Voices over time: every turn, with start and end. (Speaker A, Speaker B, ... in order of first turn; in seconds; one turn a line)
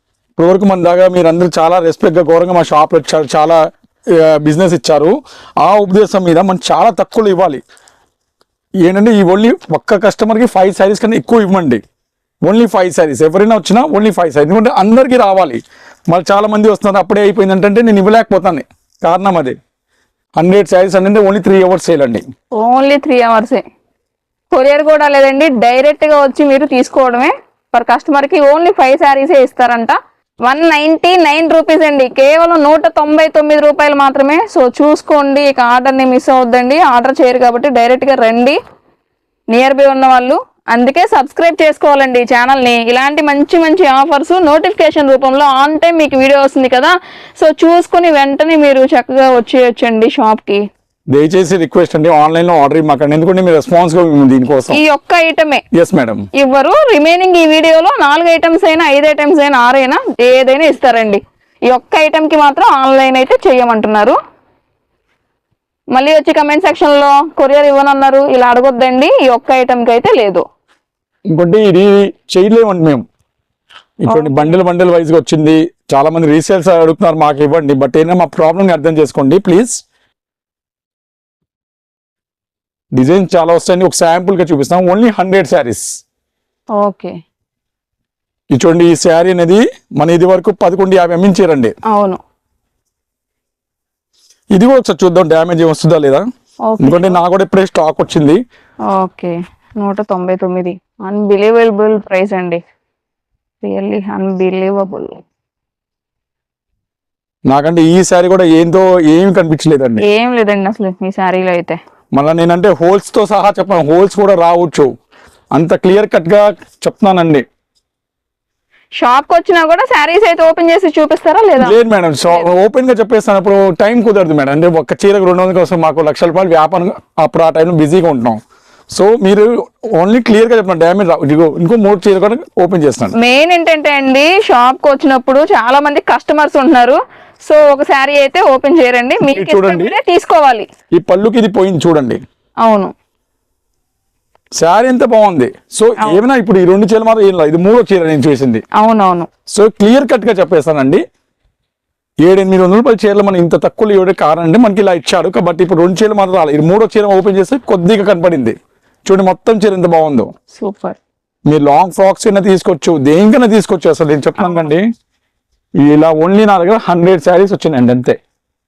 Speaker A: 0.4-3.6
Speaker A: 4.1-7.6
Speaker A: 8.8-11.8
Speaker A: 12.5-19.6
Speaker A: 20.4-22.2
Speaker B: 22.6-23.6
Speaker B: 24.5-38.6
Speaker B: 39.5-50.6
Speaker A: 51.1-54.8
Speaker B: 54.7-55.6
Speaker A: 55.7-56.3
Speaker B: 56.4-64.2
Speaker B: 66.0-70.5
Speaker A: 71.3-73.0
Speaker A: 74.0-79.8
Speaker B: 74.1-74.5
Speaker A: 82.9-86.0
Speaker B: 86.8-87.2
Speaker A: 88.5-91.7
Speaker B: 91.9-92.2
Speaker A: 94.5-96.2
Speaker B: 96.7-97.2
Speaker A: 96.8-98.4
Speaker B: 98.9-102.6
Speaker B: 103.6-105.2
Speaker A: 107.5-110.0
Speaker B: 110.0-111.8
Speaker A: 112.1-114.9
Speaker A: 115.5-117.4
Speaker B: 119.0-121.8
Speaker A: 121.6-128.4
Speaker A: 128.9-133.2
Speaker B: 133.2-140.7
Speaker A: 139.2-139.9
Speaker A: 140.9-142.2
Speaker B: 142.6-142.9
Speaker A: 144.6-148.6
Speaker B: 148.8-149.3
Speaker A: 149.5-151.0
Speaker A: 152.2-160.3
Speaker B: 160.6-161.0
Speaker A: 161.5-164.8
Speaker B: 164.4-164.7
Speaker A: 165.8-168.2